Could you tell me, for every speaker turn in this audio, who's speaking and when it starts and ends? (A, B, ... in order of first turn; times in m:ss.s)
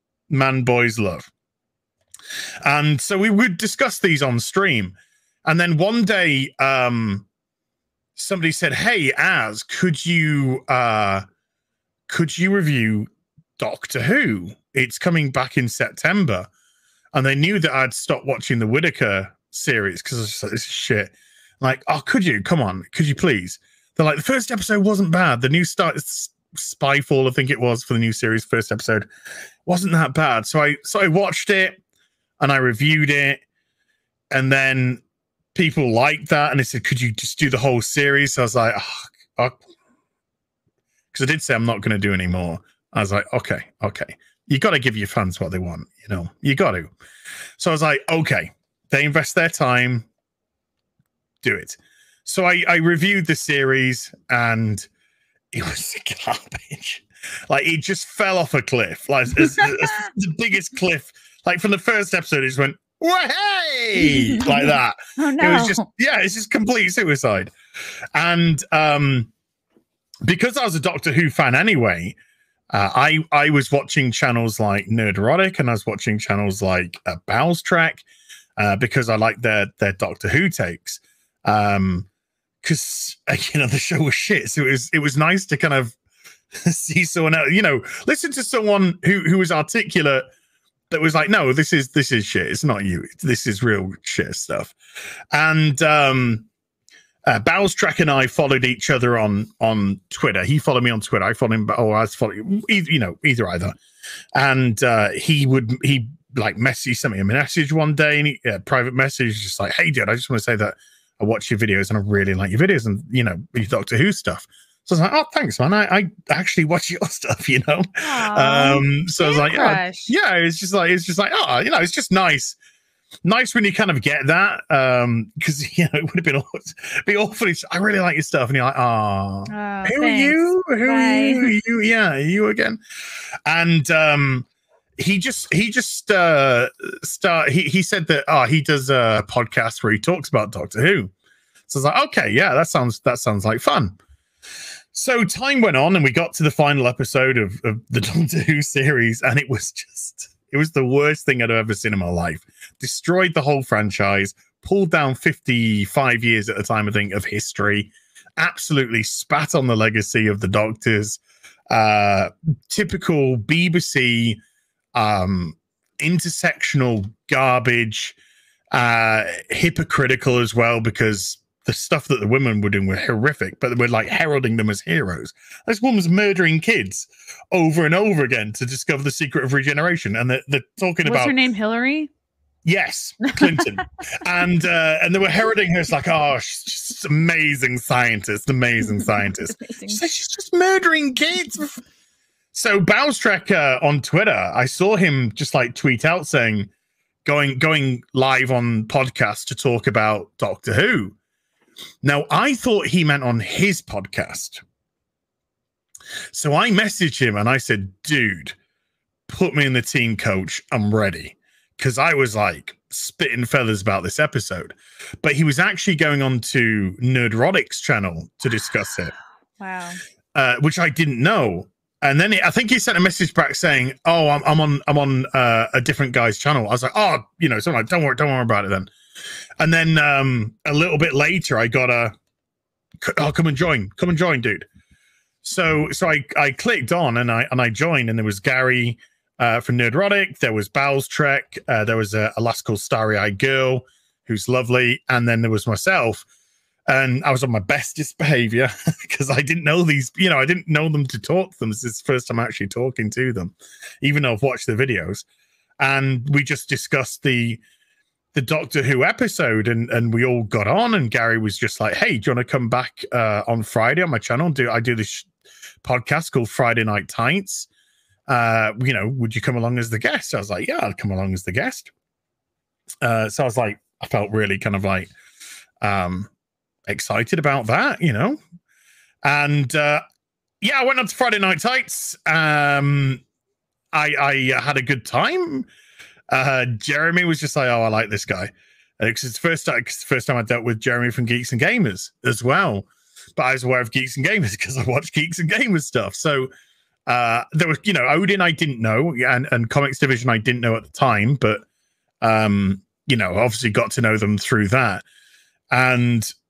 0:00.3-0:01.3 A
0:02.6-0:07.3 A
0:08.2-0:11.3 A
0:12.1-0:16.5 A
0:17.1-0:29.1 A
0:29.7-0:31.8 A
0:32.4-0:33.4 A
0:34.3-0:35.0 A
0:35.5-0:39.6 A
0:41.1-0:46.9 A
0:47.6-0:50.1 A
0:51.4-0:54.9 A
0:55.5-1:07.5 A
1:04.0-1:05.8 B
1:08.2-1:09.3 A
1:10.3-1:12.2 A
1:12.7-1:18.1 A
1:18.6-1:22.1 A
1:22.6-1:26.0 A
1:26.6-1:30.3 A
1:30.9-1:34.8 A
1:35.3-1:36.5 A
1:37.3-1:43.8 A
1:44.4-2:02.6 A
1:58.0-2:00.1 B
2:03.2-2:12.8 A
2:09.5-2:11.5 B
2:13.5-2:14.5 A
2:15.0-2:21.1 A
2:21.7-2:24.0 A
2:24.9-2:44.4 A
2:45.0-2:48.2 A
2:48.7-3:01.4 A
3:01.0-3:02.1 B
3:02.6-3:11.8 A
3:03.4-3:03.7 B
3:09.5-3:10.0 B
3:12.5-3:16.7 A
3:17.2-3:21.2 A
3:22.0-3:24.6 A
3:26.3-3:28.6 A
3:29.3-3:39.2 A
3:39.6-3:40.0 B
3:40.4-3:48.9 A
3:49.6-3:52.2 A
3:53.0-3:54.7 A
3:55.4-4:06.3 A
4:06.9-4:15.3 A
4:15.8-4:17.6 A
4:18.3-4:25.3 A
4:25.8-4:27.7 A
4:28.3-4:31.9 A
4:33.0-4:35.1 A
4:35.8-4:36.3 A
4:36.9-4:38.4 A
4:39.2-4:40.0 A
4:40.6-4:43.2 A
4:43.9-4:45.7 A
4:46.3-4:56.5 A
4:57.1-5:01.6 A
5:02.2-5:05.0 A
5:05.7-5:06.3 A